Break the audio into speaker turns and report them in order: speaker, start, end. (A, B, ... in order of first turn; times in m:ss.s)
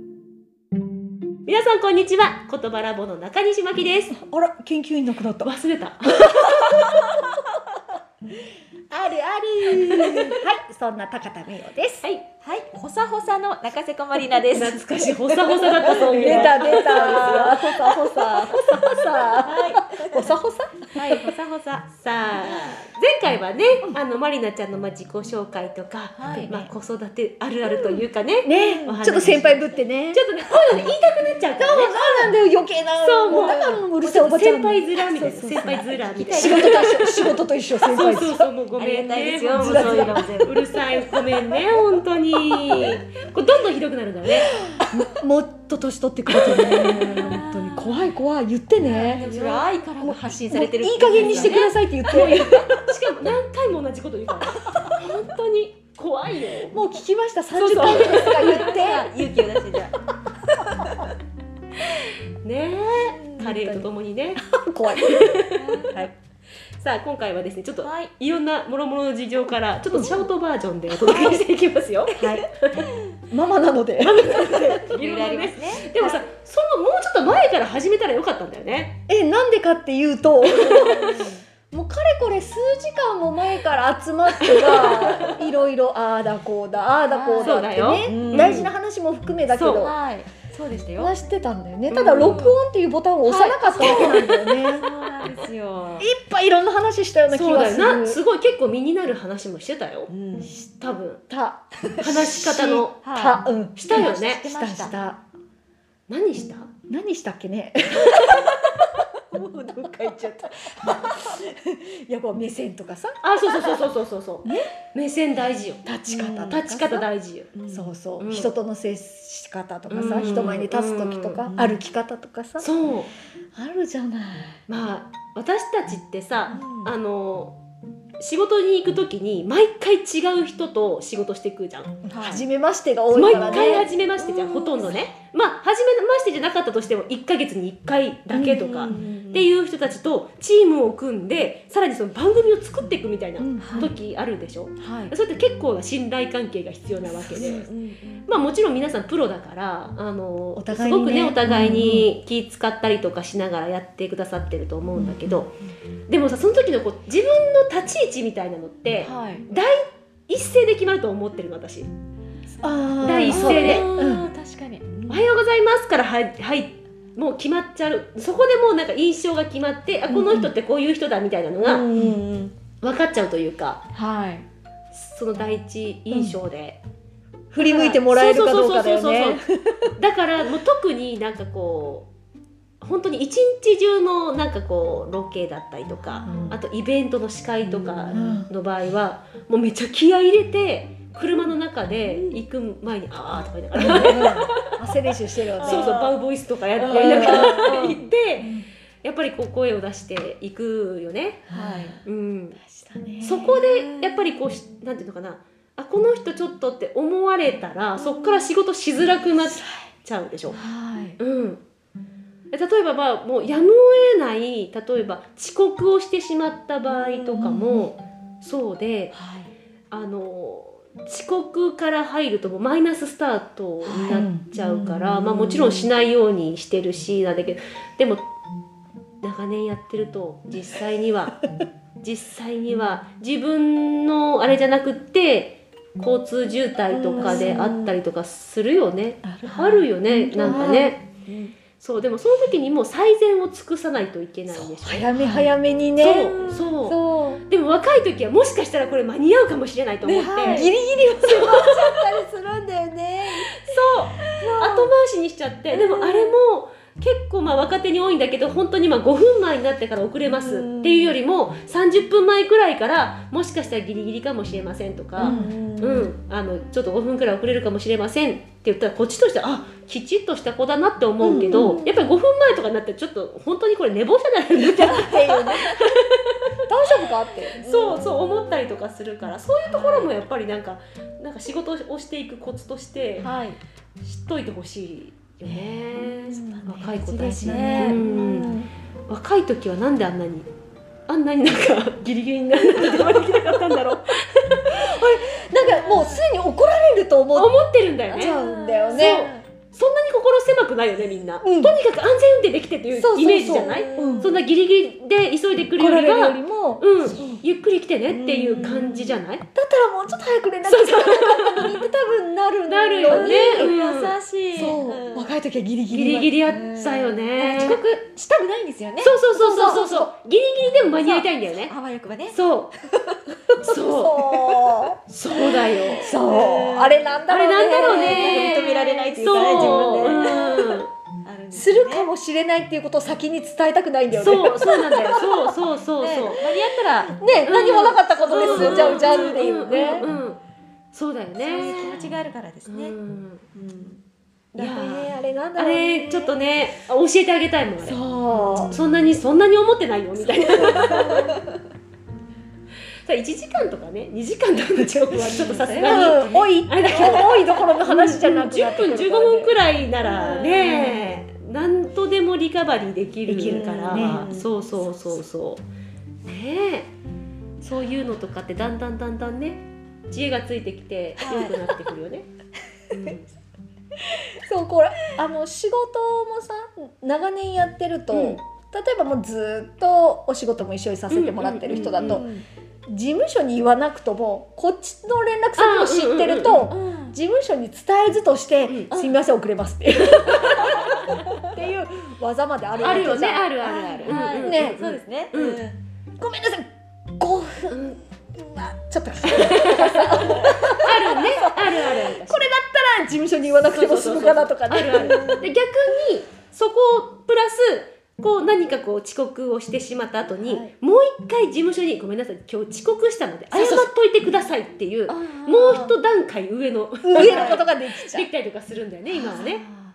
0:01.4-0:04.1 A
0:04.2-0:05.5 B
0:05.4-0:06.8 A
0:06.1-0:07.4 B
0:08.9-0:12.0 B
0:10.0-0:10.3 C
0:12.4-0:14.8 C
0:14.5-0:17.6 A
0:14.9-0:21.3 B
0:15.8-0:18.5 C
0:19.4-0:20.3 C
0:20.9-0:21.8 C
0:21.9-0:32.3 A
0:22.4-0:22.7 C
0:26.2-0:26.5 C
0:26.4-0:26.7 B
0:27.8-0:30.8 B
0:31.6-0:38.4 B
0:33.0-0:37.3 A
0:33.3-0:33.8 C
0:36.1-0:37.3 C
0:37.9-0:44.5 A
0:38.8-0:40.6 C
0:39.5-0:40.3 B
0:44.9-0:49.3 B
0:46.4-0:48.0 C
0:48.8-0:51.7 C
0:49.2-0:49.6 A
0:50.0-0:52.7 B
0:51.1-0:56.8 A
0:56.7-0:59.1 B
0:57.5-0:58.7 A
0:57.8-0:59.9 C
1:02.0-1:04.4 A
1:03.4-1:03.9 B
1:04.4-1:05.3 B
1:05.0-1:06.0 A
1:05.5-1:06.1 C
1:06.8-1:12.9 A
1:07.8-1:08.1 C
1:10.9-1:11.4 C
1:12.1-1:13.0 C
1:12.2-1:12.4 B
1:13.3-1:14.4 B
1:14.0-1:19.0 A
1:14.7-1:15.9 C
1:15.9-1:16.2 B
1:19.1-1:29.9 B
1:20.5-1:20.8 A
1:20.7-1:21.4 C
1:24.5-1:25.3 C
1:27.0-1:28.6 C
1:27.4-1:28.7 A
1:29.5-1:29.9 A
1:29.7-1:31.1 C
1:31.0-1:34.9 B
1:31.9-1:32.4 A
1:32.0-1:32.6 C
1:33.2-1:36.1 C
1:33.8-1:34.1 A
1:36.0-1:38.2 B
1:37.3-1:41.2 A
1:40.1-1:40.5 C
1:41.3-1:45.2 B
1:41.9-1:42.2 C
1:42.0-1:43.0 A
1:43.0-1:45.0 C
1:43.8-1:44.4 A
1:46.1-1:46.7 A
1:46.9-1:48.7 B
1:49.3-1:50.3 C
1:49.7-1:53.8 B
1:53.2-1:55.8 A
1:55.8-1:57.1 B
1:56.1-1:56.6 C
1:56.5-1:57.5 A
1:57.5-1:57.9 C
1:57.7-2:02.7 B
1:58.2-1:58.5 A
1:59.9-2:01.4 A
1:59.9-2:00.4 C
2:01.5-2:01.8 C
2:02.6-2:03.1 A
2:03.5-2:04.6 B
2:04.7-2:07.6 A
2:06.5-2:06.9 C
2:08.2-2:11.9 A
2:12.1-2:12.4 C
2:12.1-2:13.9 B
2:13.1-2:27.7 A
2:13.3-2:15.0 C
2:18.3-2:19.0 B
2:18.7-2:19.5 C
2:23.4-2:23.8 B
2:23.6-2:23.9 C
2:24.8-2:25.1 C
2:27.2-2:27.6 B
2:27.4-2:28.2 C
2:28.2-2:35.5 A
2:30.6-2:32.1 B
2:34.9-2:35.4 B
2:36.1-2:41.9 A
2:39.0-2:39.4 C
2:42.6-2:44.3 B
2:43.0-2:43.9 A
2:43.3-2:45.2 C
2:45.1-2:51.9 A
2:50.1-2:50.5 B
2:51.6-2:52.5 C
2:52.8-2:53.8 A
2:53.9-2:54.4 C
2:54.9-2:56.8 A
2:57.5-2:59.9 B
2:57.6-2:59.4 A
3:00.0-3:02.1 A
3:02.8-3:14.5 A
3:06.1-3:06.5 C
3:06.2-3:06.6 B
3:07.7-3:08.4 C
3:08.1-3:08.5 B
3:12.0-3:12.4 C
3:13.8-3:16.0 B
3:13.8-3:14.4 C
3:15.6-3:16.1 C
3:15.6-3:21.4 A
3:16.8-3:18.0 C
3:16.9-3:17.7 B
3:18.4-3:18.7 B
3:21.5-3:22.0 B
3:21.5-3:22.0 C
3:22.0-3:22.6 A
3:22.6-3:23.5 B
3:23.2-3:30.6 A
3:23.3-3:24.3 C
3:28.0-3:28.5 C
3:29.4-3:29.7 B
3:30.5-3:31.2 B
3:31.2-3:31.6 A
3:32.5-3:39.1 A
3:36.9-3:37.6 C
3:37.3-3:37.9 B
3:39.1-3:39.5 C
3:39.9-3:48.2 A
3:43.8-3:45.9 C
3:44.0-3:44.4 B
3:49.2-3:51.4 A
3:52.0-4:01.0 A
3:56.9-3:58.0 C
3:57.2-3:57.6 B
3:59.2-4:00.9 B
4:00.4-4:01.5 C
4:01.8-4:05.1 A
4:04.5-4:07.4 B
4:05.1-4:05.5 C
4:06.0-4:10.7 A
4:06.1-4:06.6 C
4:10.0-4:13.5 B
4:10.1-4:10.7 C
4:11.2-4:11.9 A
4:13.5-4:36.4 A
4:14.4-4:14.9 C
4:15.7-4:16.3 C
4:20.2-4:21.1 C
4:25.2-4:26.1 C
4:25.2-4:25.5 B
4:31.2-4:31.8 B
4:31.2-4:32.0 C
4:34.6-4:35.8 B
4:36.7-4:37.6 B
4:37.6-4:43.3 A
4:37.6-4:38.0 C
4:39.6-4:40.1 B
4:43.2-4:43.6 C
4:44.0-4:48.5 A
4:45.4-4:48.0 B
4:46.3-4:48.7 C
4:49.1-4:50.5 A
4:51.1-4:54.9 A
4:54.7-4:57.5 B
4:55.5-4:56.2 C
4:57.3-4:58.4 A
4:58.1-4:59.4 C
4:58.1-4:59.3 B
4:58.9-5:09.4 A
5:01.4-5:01.7 B
5:02.9-5:04.4 B
5:03.4-5:04.3 C
5:05.8-5:07.4 B
5:07.1-5:07.4 C
5:08.1-5:09.2 C
5:09.5-5:13.7 B
5:10.6-5:11.8 A
5:12.7-5:14.2 A
5:13.0-5:15.3 C
5:14.5-5:16.4 B
5:15.9-5:17.8 A
5:16.4-5:19.2 C
5:17.6-5:17.8 B
5:19.0-5:21.7 A
5:19.3-5:20.1 B
5:21.0-5:23.4 C
5:22.3-5:22.7 A
5:23.6-5:24.2 A
5:23.7-5:30.6 B
5:24.2-5:27.2 C
5:25.1-5:26.1 A
5:27.3-5:30.9 A
5:27.8-5:32.1 C
5:31.5-5:35.4 B
5:34.1-5:36.5 A
5:36.0-5:40.0 C
5:37.2-5:40.1 B
5:37.4-5:40.4 A
5:40.9-5:42.1 A
5:41.4-5:43.0 C
5:42.7-5:43.4 A
5:43.5-5:44.0 C
5:44.5-5:46.3 B
5:44.6-5:48.0 A
5:47.8-5:48.8 B
5:48.3-5:48.7 C
5:48.6-5:51.3 A
5:50.6-5:51.6 C
5:50.6-5:51.0 B
5:53.0-6:05.6 A
5:55.2-5:58.2 C
5:55.3-5:59.6 B
6:00.0-6:01.1 C
6:03.2-6:04.3 B
6:03.4-6:04.5 C
6:06.2-6:06.9 A
6:07.6-6:12.3 A
6:11.2-6:11.6 C
6:12.9-6:13.3 A
6:14.4-6:22.3 B
6:18.1-6:18.4 A
6:21.1-6:22.2 A
6:22.0-6:22.4 C
6:22.9-6:33.5 B
6:25.6-6:26.6 A
6:26.7-6:27.2 C
6:28.9-6:29.2 C
6:32.8-6:35.6 A
6:32.8-6:35.8 C
6:34.1-6:34.8 B
6:36.2-6:36.7 B
6:37.2-6:37.8 B
6:37.7-6:38.0 A
6:38.4-6:45.4 B
6:39.3-6:42.4 A
6:43.6-6:59.6 A
6:44.9-6:45.4 C
6:50.4-6:50.7 B
6:53.5-6:53.9 B
6:55.1-6:55.9 C
6:57.0-6:58.3 B
6:57.1-6:57.6 C
6:59.1-6:59.8 C